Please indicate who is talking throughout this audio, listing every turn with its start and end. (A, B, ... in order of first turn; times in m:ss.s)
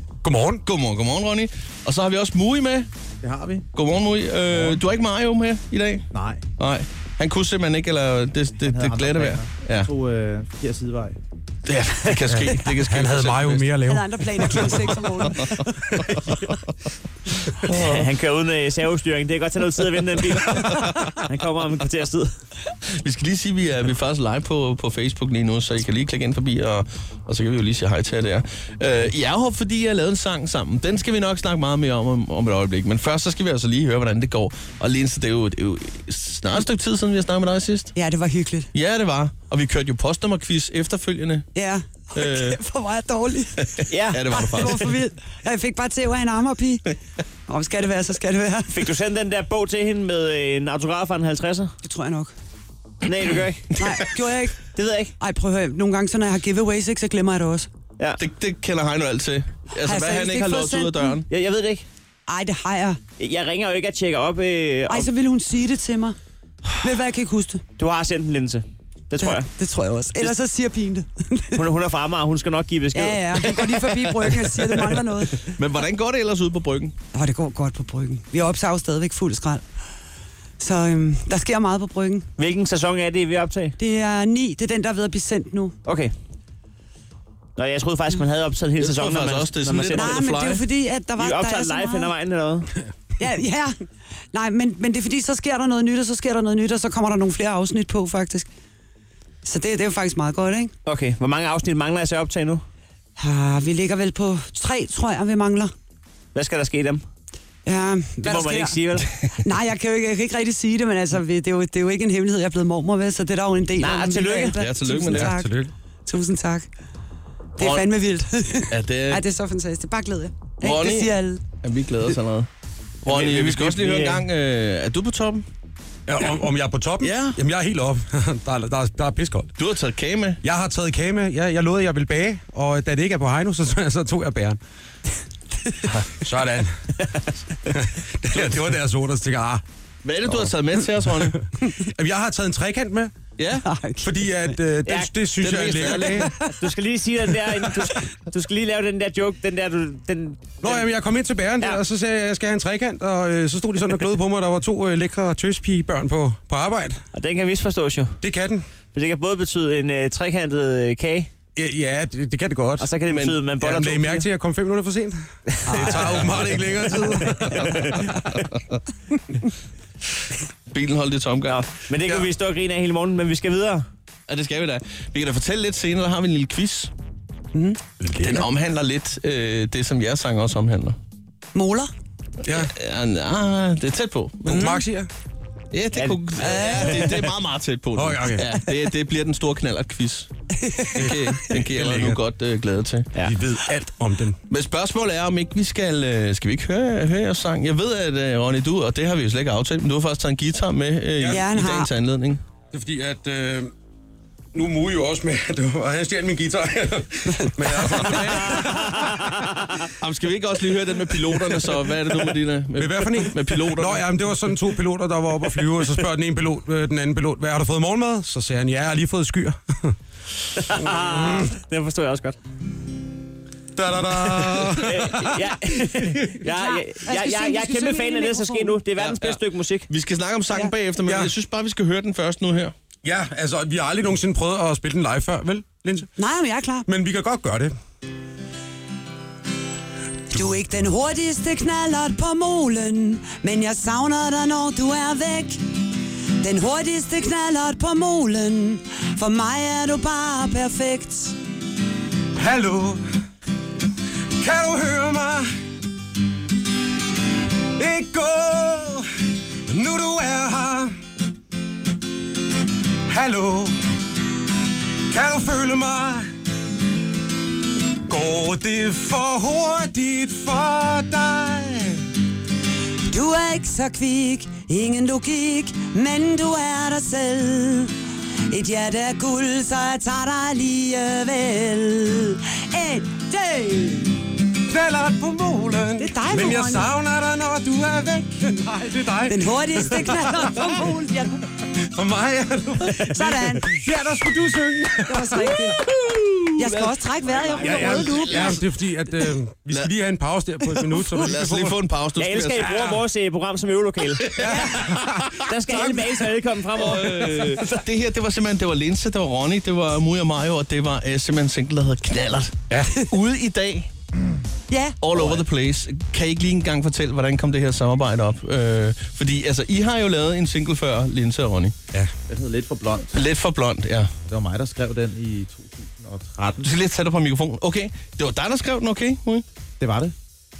0:00.2-0:00.6 A
0:00.6-0:02.9 B
0:03.2-0:03.6 C
0:03.7-0:06.0 B
0:04.5-0:04.8 C
0:06.1-0:06.4 C
0:06.6-0:09.9 B
0:08.6-0:11.2 C
0:11.6-0:13.7 B
0:12.3-0:15.2 A
0:13.8-0:15.7 D
0:15.2-0:16.5 B
0:17.5-0:18.1 B
0:17.6-0:22.3 E
0:20.5-0:21.1 B
0:22.9-0:37.9 B
0:37.9-0:38.7 D
0:38.7-0:41.5 B
0:41.5-0:46.9 D
0:42.1-0:42.6 B
0:43.6-0:44.9 B
0:43.9-0:44.2 E
0:47.5-0:48.8 D
0:48.7-0:51.7 E
0:51.8-0:52.3 D
0:53.0-0:53.7 E
0:53.7-0:54.6 D
0:54.7-0:55.1 E
0:55.2-0:57.7 D
0:58.2-1:01.3 B
0:59.8-1:01.2 D
1:01.3-1:01.8 E
1:02.2-1:03.0 D
1:03.2-1:05.1 E
1:04.9-1:06.2 D
1:06.8-1:07.6 D
1:07.8-1:09.5 E
1:09.2-1:11.6 D
1:11.5-1:15.0 E
1:12.9-1:15.4 D
1:15.4-1:17.0 B
1:17.1-1:19.6 D
1:20.6-1:22.3 D
1:22.4-1:23.7 E
1:23.8-1:25.7 D
1:25.8-1:26.1 E
1:27.6-1:30.4 E
1:28.8-1:30.6 B
1:29.9-1:32.1 D
1:31.2-1:32.7 E
1:33.2-1:33.7 D
1:34.3-1:38.5 D
1:39.4-1:40.7 D
1:40.8-1:42.6 E
1:43.2-1:45.7 D
1:46.3-1:47.0 E
1:47.6-1:48.8 D
1:48.2-1:49.3 E
1:49.4-1:56.7 D
1:53.8-1:54.6 E
1:54.6-1:55.3 B
1:55.1-1:55.7 A
1:57.6-2:01.4 D
1:57.6-1:57.9 B
1:58.7-1:59.2 B
2:00.6-2:02.5 B
2:03.0-2:05.4 B
2:03.1-2:04.3 E
2:06.1-2:09.5 A
2:07.0-2:07.4 B
2:09.6-2:10.4 B
2:10.4-2:14.6 A
2:16.1-2:16.8 A
2:17.7-2:19.6 A
2:20.0-2:21.4 B
2:21.1-2:23.1 A
2:23.4-2:23.6 B
2:23.6-2:24.1 D
2:24.0-2:26.5 A
2:24.8-2:25.2 E
2:25.3-2:26.3 B
2:26.5-2:30.8 E
2:30.6-2:37.0 A
2:37.1-2:38.2 E
2:38.2-2:38.6 A
2:38.9-2:41.3 E
2:41.6-2:42.9 A
2:42.8-2:44.3 E
2:43.0-2:43.4 B
2:43.6-2:48.4 A
2:45.6-2:46.2 E
2:47.1-2:48.1 E
2:48.1-2:48.7 B
2:50.7-2:51.6 B
2:51.4-2:53.8 E
2:54.3-2:56.9 B
2:57.5-2:58.5 A
2:58.2-3:01.0 B
3:01.5-3:01.9 D
3:02.5-3:04.7 B
3:04.4-3:05.1 A
3:04.5-3:04.8 D
3:05.7-3:10.3 B
3:05.9-3:07.3 E
3:06.7-3:07.0 D
3:07.9-3:08.5 A
3:10.6-3:11.2 D
3:11.0-3:13.1 B
3:11.0-3:12.2 A
3:13.2-3:14.4 A
3:14.5-3:22.4 B
3:21.2-3:21.5 A
3:21.3-3:21.9 D
3:22.7-3:23.7 A
3:24.5-3:29.5 A
3:30.0-3:34.0 B
3:32.8-3:39.9 A
3:40.6-3:42.4 E
3:40.9-3:41.5 A
3:43.8-3:45.9 A
3:44.4-3:49.9 E
3:46.5-3:48.8 D
3:49.0-3:52.7 B
3:51.0-3:51.3 A
3:53.0-3:56.1 A
3:56.2-3:56.9 D
3:56.9-3:57.7 A
4:00.3-4:05.6 D
4:06.4-4:11.4 D
4:12.3-4:13.0 A
4:14.4-4:15.5 A
4:17.7-4:19.1 A
4:19.7-4:20.9 A
4:23.1-4:23.7 A
4:25.1-4:26.2 A
4:28.1-4:32.0 A
4:33.1-4:37.9 D
4:38.5-4:44.2 D
4:44.7-4:50.9 A
4:46.0-4:46.9 D
4:49.2-4:51.4 D
4:51.8-4:55.6 A
4:52.9-4:53.7 D
4:55.0-4:55.8 D
4:55.4-4:58.6 B
4:56.6-4:58.6 D
4:57.6-5:01.8 A
5:00.7-5:02.7 B
5:02.2-5:04.5 E
5:02.6-5:03.0 A
5:04.2-5:05.4 A
5:04.4-5:04.9 D
5:05.5-5:07.7 E
5:06.7-5:13.9 B
5:12.7-5:13.0 A
5:14.7-5:15.0 D
5:15.0-5:21.8 B
5:15.1-5:15.4 C
5:22.3-5:23.2 C
5:23.1-5:24.1 B
5:24.3-5:26.7 C
5:26.6-5:29.4 B
5:29.8-5:30.1 C